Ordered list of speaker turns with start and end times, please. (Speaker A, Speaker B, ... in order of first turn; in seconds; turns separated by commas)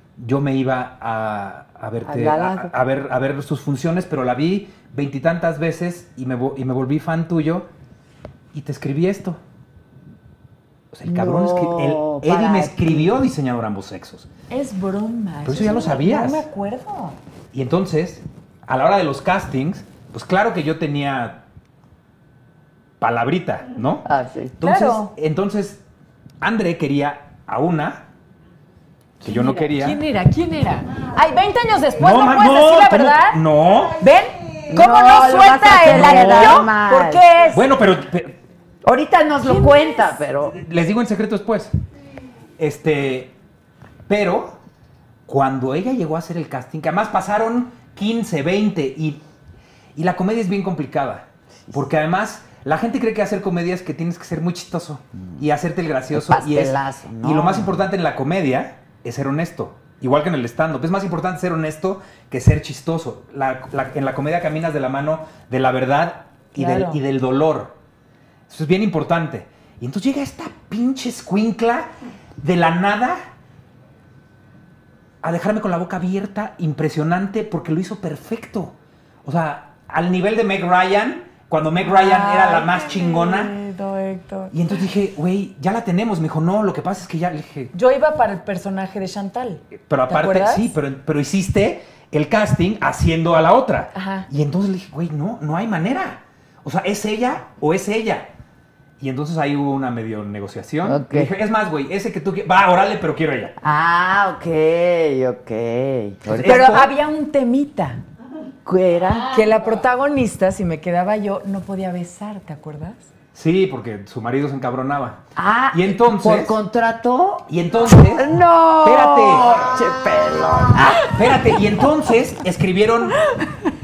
Speaker A: 0.2-7.7, Speaker B: 2.0-2.7, Speaker A: 8.5-9.4, Speaker A: 10.9-14.3, Speaker B: 11.1-13.2, Speaker C: 14.5-17.2, Speaker A: 15.4-16.5, Speaker A: 17.5-21.4, Speaker A: 23.0-24.1, Speaker B: 24.1-24.6, Speaker A: 24.6-25.8, Speaker C: 24.6-25.1, Speaker A: 26.4-28.1, Speaker A: 29.2-30.0, Speaker C: 29.2-37.7, Speaker A: 32.0-34.0, Speaker B: 34.7-37.3, Speaker A: 35.8-36.7, Speaker A: 37.5-38.4, Speaker B: 38.8-40.6, Speaker C: 39.4-40.1, Speaker A: 40.5-41.7, Speaker A: 42.6-43.3, Speaker A: 44.1-44.6, Speaker A: 45.3-49.2, Speaker A: 50.0-67.8, Speaker B: 56.1-57.8, Speaker C: 66.5-67.0, Speaker A: 68.5-71.9, Speaker A: 72.4-73.2, Speaker A: 75.2-78.7, Speaker A: 79.2-83.6, Speaker C: 81.8-84.5, Speaker A: 84.5-87.7, Speaker C: 87.7-90.8, Speaker A: 89.8-98.3, Speaker C: 94.0-94.3, Speaker A: 99.0-103.5, Speaker B: 100.8-101.3, Speaker B: 103.6-106.9, Speaker A: 106.3-106.9, Speaker C: 106.4-108.0, Speaker B: 108.7-109.5, Speaker C: 109.3-113.0, Speaker A: 113.3-115.2, Speaker B: 115.4-121.1, Speaker A: 115.7-116.6, Speaker A: 117.5-118.3, Speaker A: 118.8-119.7, Speaker A: 121.1-123.2, Speaker C: 123.2-123.5